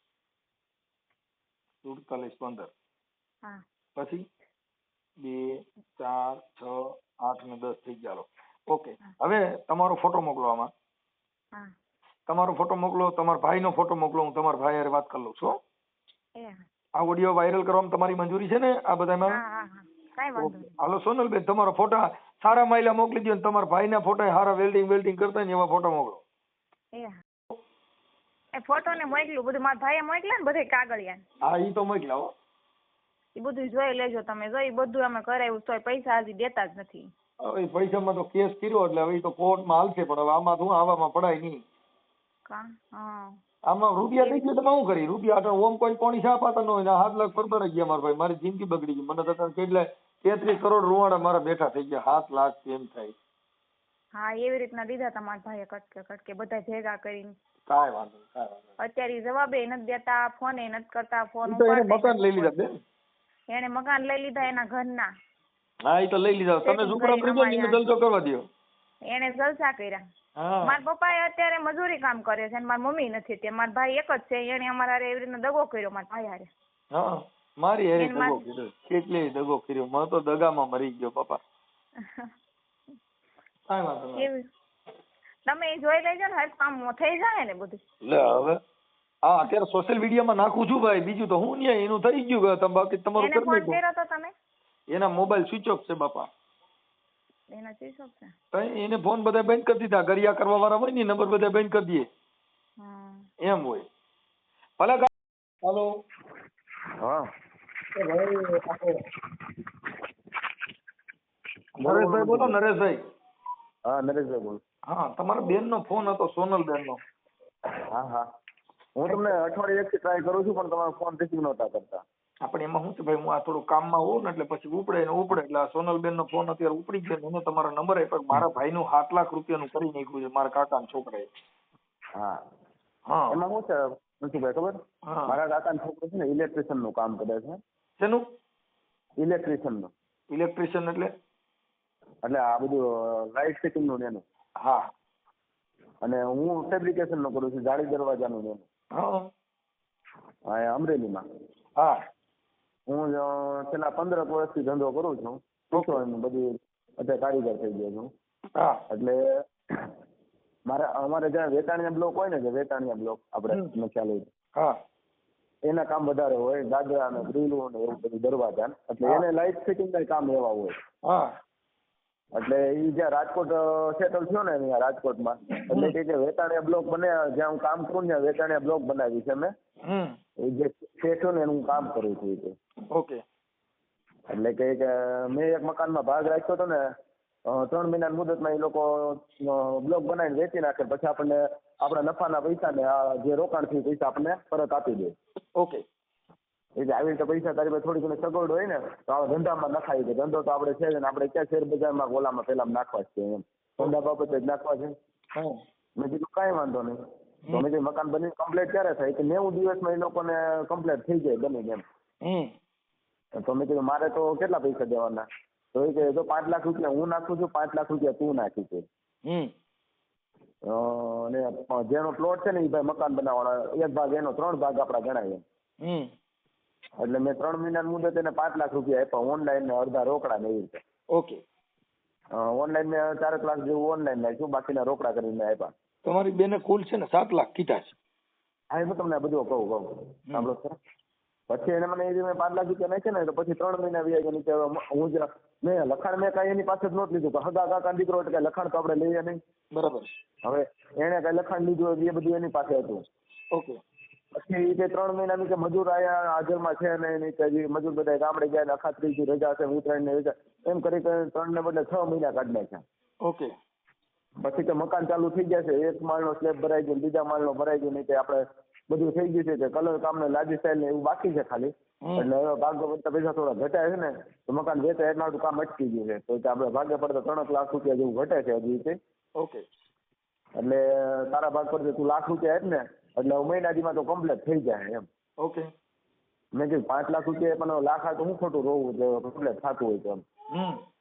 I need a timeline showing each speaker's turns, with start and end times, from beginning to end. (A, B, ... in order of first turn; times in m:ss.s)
0:01.8-0:02.7 A
0:04.0-0:04.2 A
0:05.2-0:10.7 A
0:12.3-0:15.6 A
0:17.0-0:19.4 A
0:19.3-0:20.7 B
0:20.4-0:26.2 A
0:28.6-0:31.2 B
0:31.4-0:32.3 A
0:33.4-0:37.1 B
0:37.4-0:41.6 A
0:42.4-0:43.4 B
0:43.7-0:53.1 A
0:44.2-0:44.4 B
0:54.1-0:57.3 B
0:57.7-0:58.6 A
0:58.8-1:02.5 B
1:01.4-1:02.8 A
1:03.5-1:05.1 B
1:05.8-1:08.4 A
1:06.6-1:07.8 B
1:09.1-1:10.0 B
1:10.4-1:10.8 A
1:10.6-1:16.5 B
1:16.9-1:21.4 A
1:18.0-1:18.4 B
1:22.0-1:22.3 B
1:23.7-1:24.3 A
1:24.2-1:24.4 B
1:25.4-1:27.8 B
1:28.0-1:28.6 A
1:29.2-1:33.8 A
1:33.2-1:34.3 B
1:34.9-1:36.3 A
1:37.5-1:38.3 B
1:38.5-1:42.1 A
1:42.8-1:43.2 B
1:43.4-1:43.8 A
1:44.8-1:45.1 A
1:47.9-1:49.0 A
1:51.8-1:53.0 A
1:51.8-1:52.6 C
1:53.9-1:54.6 C
1:54.9-1:57.0 A
1:57.9-1:58.2 C
1:59.0-2:02.0 C
1:59.1-1:59.3 A
2:02.4-2:11.2 A
2:13.1-2:13.4 A
2:13.3-2:17.6 C
2:15.1-2:15.4 A
2:19.2-2:19.9 C
2:20.3-2:21.1 A
2:22.2-2:24.2 C
2:26.0-2:28.6 C
2:28.9-2:29.3 A
2:30.5-2:31.2 C
2:32.9-2:38.1 C
2:35.7-2:36.0 A
2:38.6-2:38.8 A
2:38.9-2:39.9 C
2:40.7-2:44.3 C
2:45.6-2:50.7 C
2:52.3-2:59.5 C
2:59.8-3:00.2 A
3:00.4-3:02.5 C
3:02.9-3:03.2 A
3:04.3-3:06.8 C
3:07.5-3:15.2 C
3:15.6-3:15.8 A
3:16.8-3:24.9 C
3:25.3-3:25.6 A
3:26.0-3:27.0 C
3:27.5-3:31.8 C
3:32.2-3:32.5 A
3:33.4-3:38.8 C
3:39.2-3:39.5 A
3:40.6-3:45.4 C
3:45.8-3:46.1 A
3:47.0-3:50.8 C
3:51.1-3:51.4 A
3:52.3-3:55.7 C
3:56.0-3:57.9 A
3:58.7-4:00.7 C
4:01.5-4:09.4 C
4:09.7-4:10.1 A
4:10.4-4:13.0 C
4:13.5-4:13.8 A
4:14.3-4:22.8 C
4:23.2-4:23.5 A
4:24.4-4:39.0 C
4:39.4-4:39.6 A
4:40.6-4:45.0 C
4:45.4-4:45.7 A
4:46.5-4:50.2 C
4:50.5-4:50.8 A